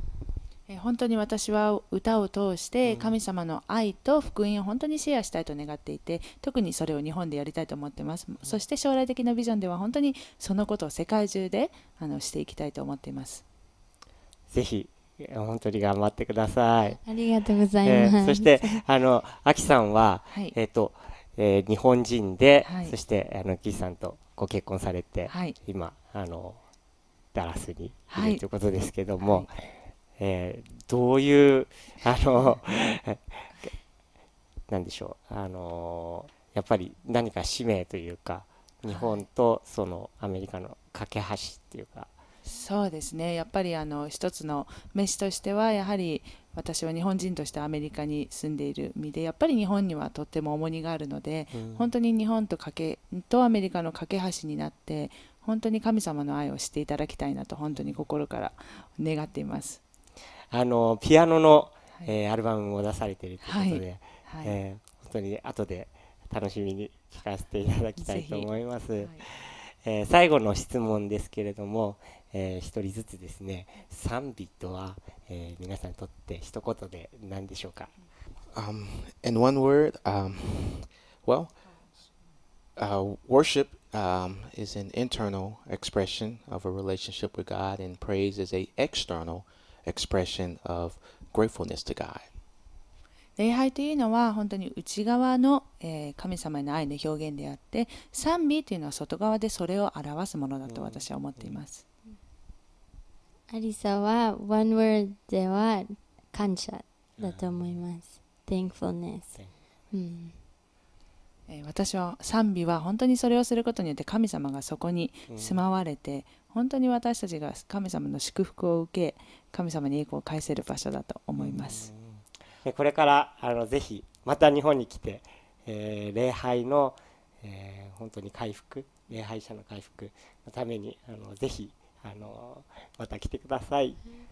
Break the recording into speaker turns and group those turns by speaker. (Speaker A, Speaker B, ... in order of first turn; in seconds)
Speaker A: 0.7-13.4, 20.3-20.6, 22.6-22.9, 25.3-25.6, 28.1-28.4, 29.2-29.5, 38.9-39.2, 42.4-59.8, 63.4-64.6, 68.0-69.2, 93.4-101.8, 111.5-121.9
Speaker B: 2.9-3.1, 14.5-17.2, 17.8-26.7, 27.3-33.7, 34.7-42.1, 51.5-51.9, 57.7-58.0, 60.5-78.0, 100.7-101.6, 107.2-107.9, 108.6-109.6, 115.3-115.6, 121.4-134.1
Speaker C: 17.1-18.8, 103.5-110.4
Speaker D: 78.5-81.6, 82.8-92.3